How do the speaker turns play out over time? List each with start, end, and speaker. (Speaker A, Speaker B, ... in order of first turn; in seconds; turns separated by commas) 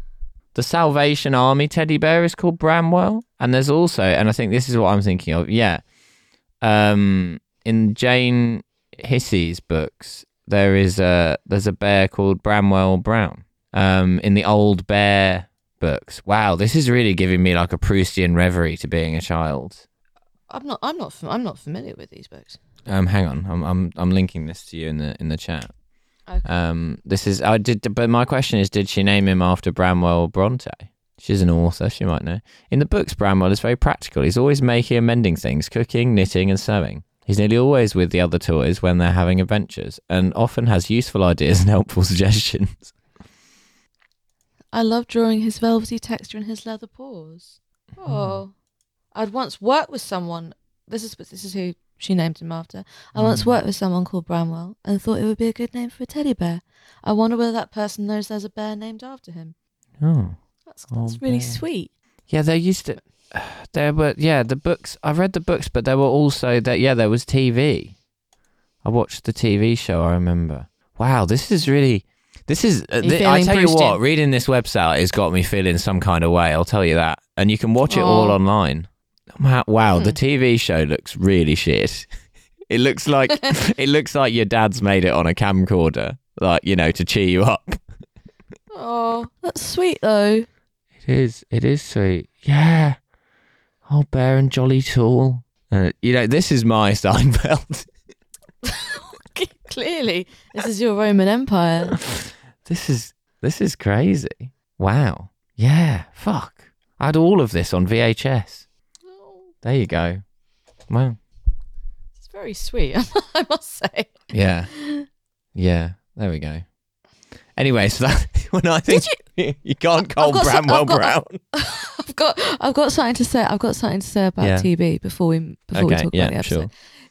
Speaker A: 0.5-5.8, Speaker A: 6.6-19.9, Speaker B: 20.5-22.6, Speaker A: 22.9-25.7, Speaker A: 26.4-42.9, Speaker B: 44.7-48.5, Speaker A: 48.0-48.4, Speaker B: 49.1-59.5, Speaker A: 53.2-53.6, Speaker A: 60.0-60.4, Speaker B: 60.7-61.9, Speaker A: 60.9-61.6, Speaker A: 62.3-68.0, Speaker A: 68.8-82.1, Speaker B: 73.0-74.0, Speaker B: 77.9-78.4, Speaker A: 82.7-87.8, Speaker B: 88.7-90.5, Speaker A: 91.0-93.0, Speaker A: 93.9-97.9, Speaker B: 98.7-102.0, Speaker A: 102.0-108.7, Speaker B: 109.1-109.5, Speaker A: 109.6-110.2, Speaker A: 110.9-111.2, Speaker B: 112.2-115.1, Speaker A: 114.3-114.7, Speaker A: 115.6-116.6, Speaker A: 117.6-121.4, Speaker B: 118.9-119.2, Speaker B: 120.2-126.7, Speaker A: 124.4-124.7, Speaker A: 125.7-126.7